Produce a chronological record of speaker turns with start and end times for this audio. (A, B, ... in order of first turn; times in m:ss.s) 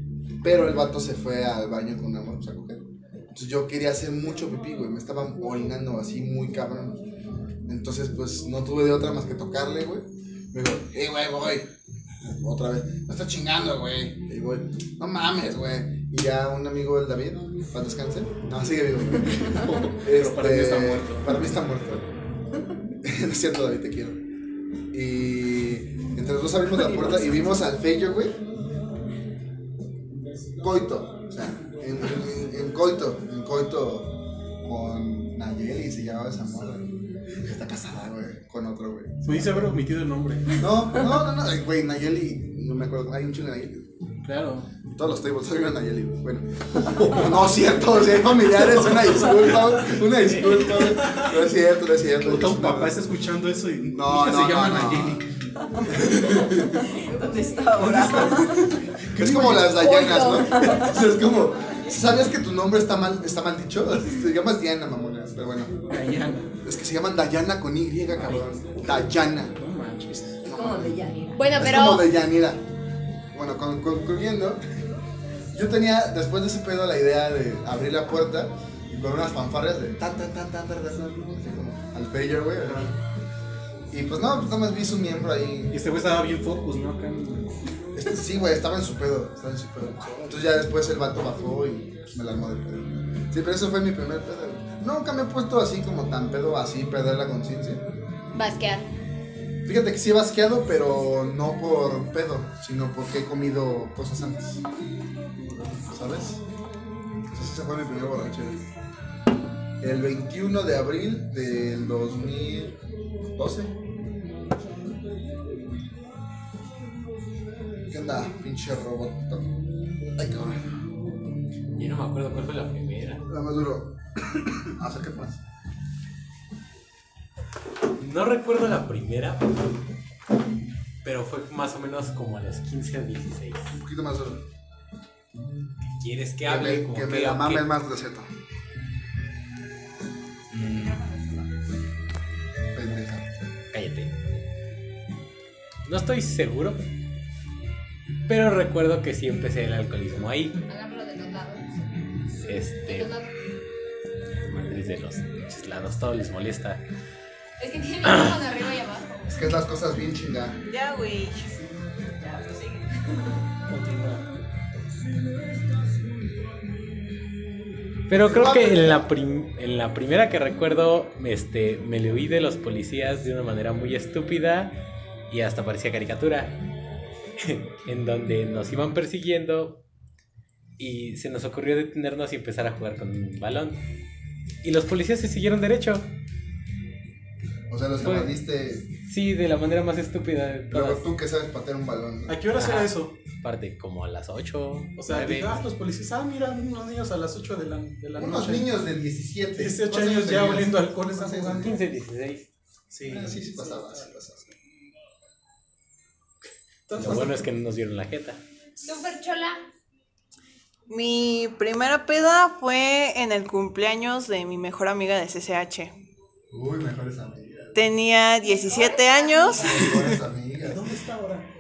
0:00.4-0:07.0 A
0:07.7-0:11.7 A
0:12.2-0:22.1 A
0:19.8-0:21.3 B
0:23.0-0:24.2 A
0:24.9-0:28.4 A
0:26.8-0:27.0 C
0:30.6-0:39.7 A
0:39.2-0:40.6 B
0:40.5-0:43.9 A
0:44.2-0:44.7 B
0:44.9-0:53.0 A
0:46.9-0:47.3 B
0:49.3-0:49.7 B
0:50.4-0:51.3 B
0:52.2-0:56.1 B
0:53.8-0:55.2 A
0:55.9-0:56.9 A
0:56.9-0:58.7 C
0:57.9-1:05.7 A
0:58.0-0:58.3 B
0:58.9-0:59.8 B
0:59.9-1:00.4 D
1:00.0-1:00.9 C
1:05.9-1:06.5 B
1:06.6-1:09.6 A
1:08.2-1:08.5 B
1:09.6-1:10.4 B
1:10.4-1:12.6 A
1:10.5-1:11.4 C
1:11.4-1:12.1 D
1:13.3-1:14.6 A
1:15.5-1:22.9 A
1:22.6-1:22.9 B
1:23.9-1:25.8 A
1:25.7-1:27.6 B
1:28.0-1:37.9 A
1:38.3-1:38.9 D
1:39.6-1:44.6 A
1:45.4-1:46.4 A
1:47.3-1:48.7 A
1:49.8-1:52.8 A
1:53.3-1:53.8 A
1:57.9-1:59.5 A
2:00.2-2:00.7 A
2:01.7-2:03.2 E
2:03.3-2:05.4 A
2:08.0-2:09.8 E
2:11.0-2:13.8 E
2:13.7-2:14.4 A
2:16.0-2:17.7 E
2:16.4-2:18.3 A
2:20.5-2:21.0 E
2:20.7-2:21.4 D
2:22.8-2:23.4 A
2:23.7-2:24.1 E
2:25.8-2:26.8 E
2:28.3-2:30.6 E
2:30.7-2:31.7 D
2:32.4-2:33.1 E
2:32.8-2:33.4 D
2:34.4-2:36.8 E
2:37.6-2:39.3 D
2:39.3-2:40.6 A
2:40.7-2:41.5 F
2:42.2-2:42.8 C
2:43.7-2:44.2 B
2:48.1-2:54.8 E
2:48.1-2:49.1 A
2:55.3-2:56.6 E
2:57.4-2:59.8 E
3:00.8-3:03.8 E
3:04.6-3:06.1 E
3:07.7-3:08.9 A
3:08.0-3:08.3 E
3:09.0-3:11.0 E
3:10.7-3:12.4 A
3:12.3-3:13.1 B
3:12.6-3:15.6 E
3:15.0-3:18.7 B
3:18.2-3:21.8 A
3:19.6-3:21.8 B
3:21.6-3:22.5 E
3:22.9-3:24.1 B
3:23.0-3:24.6 A
3:26.9-3:27.5 B
3:27.0-3:28.4 E
3:28.8-3:29.6 D
3:30.9-3:35.9 F
3:36.5-3:37.9 A
3:37.8-3:39.7 F
3:38.4-3:39.8 D
3:39.5-3:40.9 A
3:39.9-3:41.5 B